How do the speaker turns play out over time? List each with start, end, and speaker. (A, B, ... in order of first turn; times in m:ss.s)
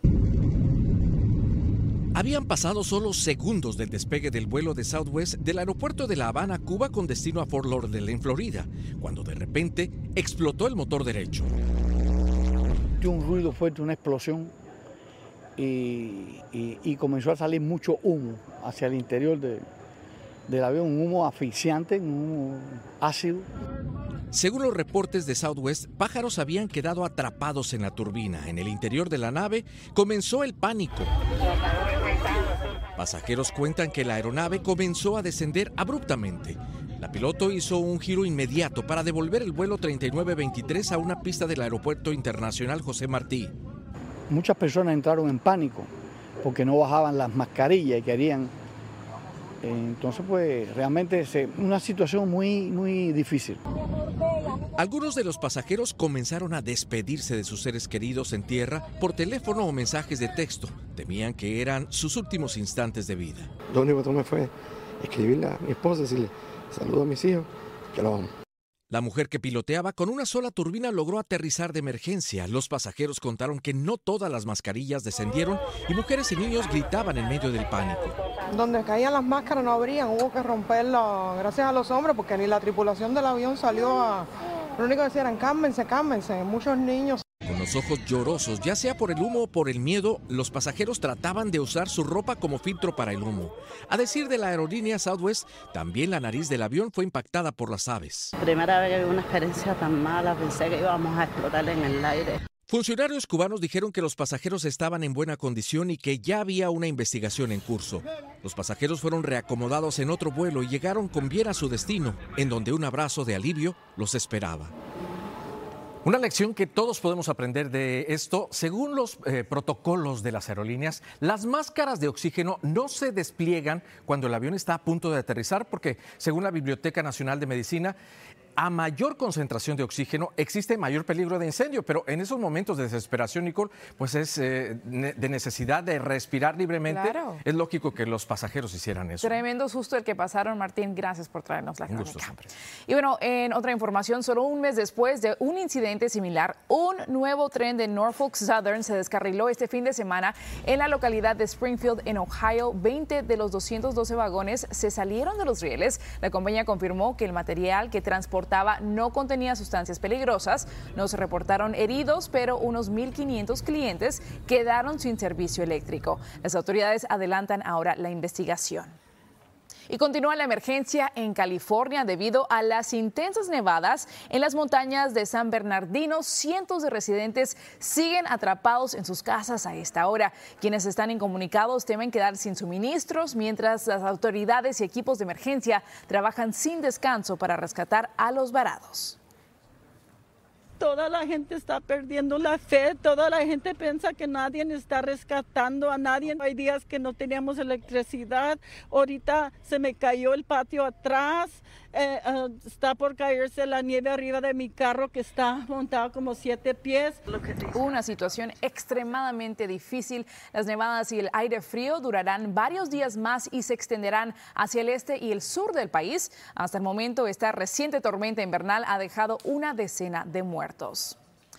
0:02.1-0:11.5 A
0:13.0-0:14.5 B
0:15.6-0:19.7 B
0:20.5-0:23.5 B
0:24.3-0:31.1 A
0:33.0-0:43.5 A
0:44.3-0:45.9 B
0:46.4-0:48.5 B
0:49.6-0:53.6 B
0:54.8-1:03.5 A
1:03.7-1:08.3 C
1:08.9-1:18.2 A
1:18.5-1:27.2 D
1:27.4-1:38.3 A
1:38.4-1:42.4 E
1:42.7-1:54.7 A
1:56.0-2:08.0 A
2:08.6-2:19.4 A
2:16.9-2:17.4 F
2:19.2-2:22.3 F
2:21.9-2:22.5 A
2:22.9-2:49.0 F
2:49.9-3:09.2 F
3:10.8-3:27.2 G
3:27.7-3:41.2 F